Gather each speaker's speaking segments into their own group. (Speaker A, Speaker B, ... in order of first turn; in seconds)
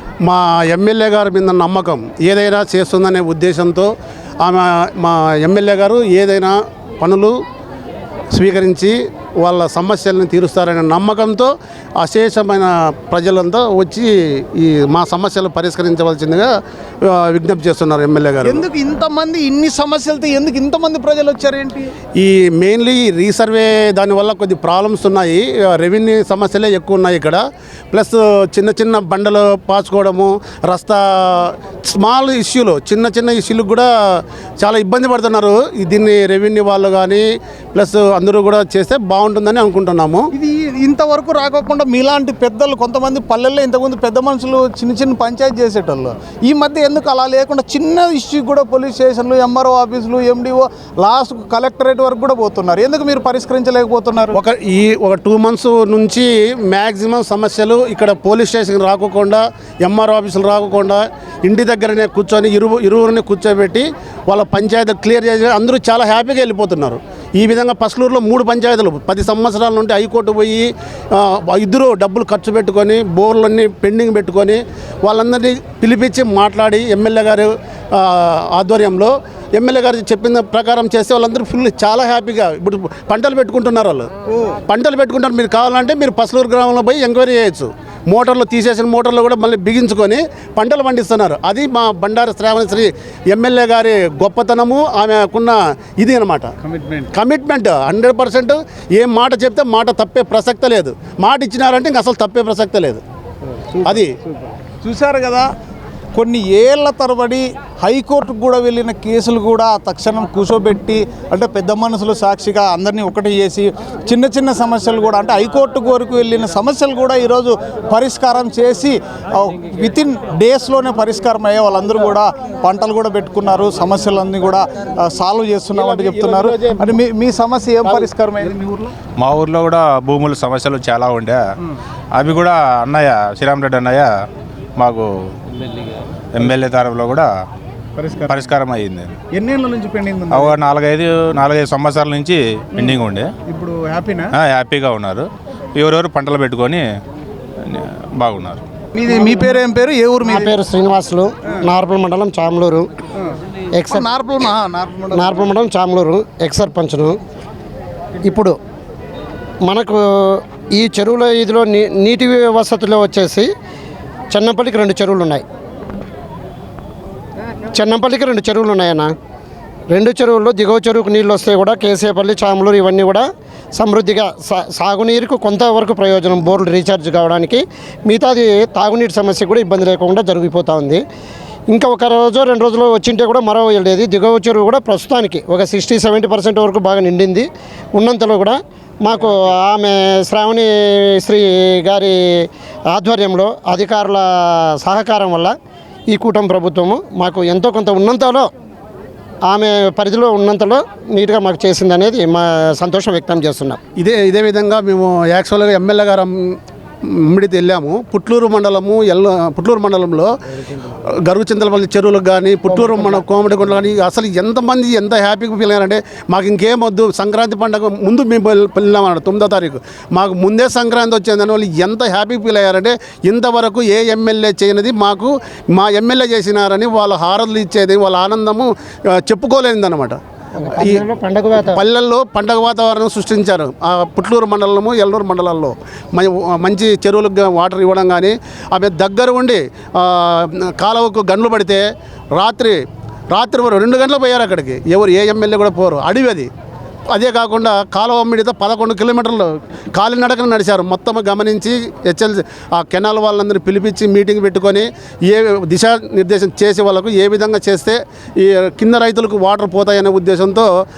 Speaker A: 0.2-3.9, 4.4-7.4, 8.3-16.5, 17.0-18.6, 22.2-40.3, 54.4-84.1, 84.7-96.5, 97.1-103.0, 125.7-126.9, 204.0-230.2, 231.6-241.8, 242.3-242.8, 243.3-246.5, 247.1-260.7
Speaker B: 18.4-21.9, 40.3-54.4, 84.3-84.6, 96.6-97.1, 103.7-105.5, 106.2-128.9, 138.0-138.6, 139.3-140.6, 142.8-144.3, 148.9-150.5, 153.9-155.5
Speaker C: 129.2-131.4, 132.2-134.1, 134.8-135.1, 136.3-137.3, 138.3-139.2, 140.3-143.3, 144.3-146.8, 147.7-148.6
Speaker D: 150.2-152.9, 153.8-154.1, 155.1-157.2, 158.2-158.6, 159.7-163.5, 164.3-165.4, 167.7-169.1, 169.9-181.0, 181.7-195.5, 196.1-198.5, 199.5-203.8, 212.8-213.1, 230.6-231.8